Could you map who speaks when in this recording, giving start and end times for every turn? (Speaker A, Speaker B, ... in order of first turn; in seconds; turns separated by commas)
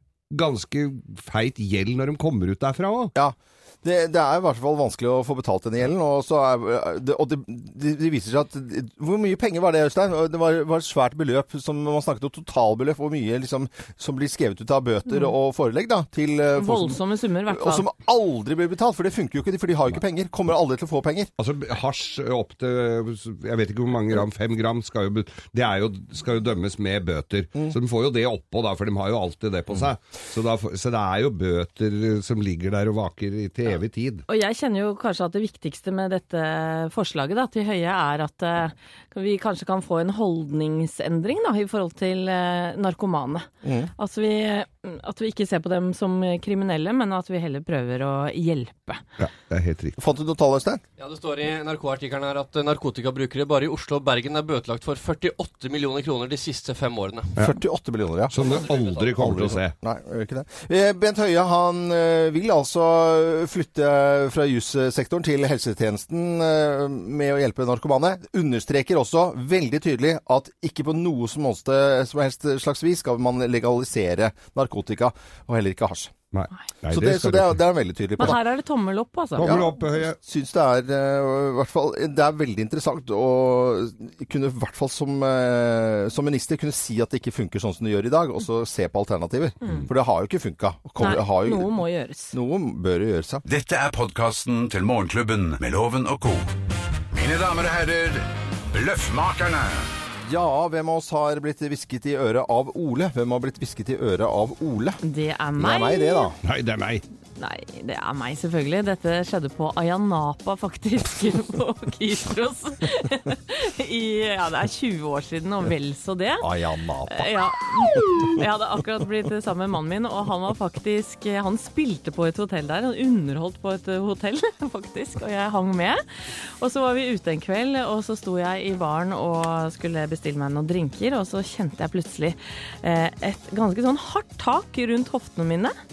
Speaker A: 0.3-3.1, Speaker B: 3.1-21.3, Speaker C: 16.6-17.9, Speaker A: 21.4-34.2, Speaker C: 34.3-43.5, Speaker B: 43.6-43.9, Speaker C: 44.0-49.0, Speaker A: 49.2-49.9, Speaker B: 50.0-50.8, Speaker D: 51.0-57.3, Speaker B: 57.4-58.4, Speaker A: 58.3-59.7, Speaker D: 58.4-59.1, Speaker B: 59.2-76.1, Speaker A: 76.3-77.6, Speaker B: 76.9-78.4, Speaker C: 78.2-79.6, Speaker A: 79.4-80.2, Speaker B: 79.4-91.7, Speaker C: 91.0-92.3, Speaker B: 92.3-93.4, Speaker E: 93.5-96.5, Speaker E: 97.1-99.9, Speaker B: 100.2-105.0, Speaker C: 105.0-106.3, Speaker B: 105.6-106.3, Speaker A: 106.4-107.0, Speaker C: 107.4-116.5, Speaker B: 116.4-117.4, Speaker C: 117.1-135.7, Speaker B: 117.9-118.2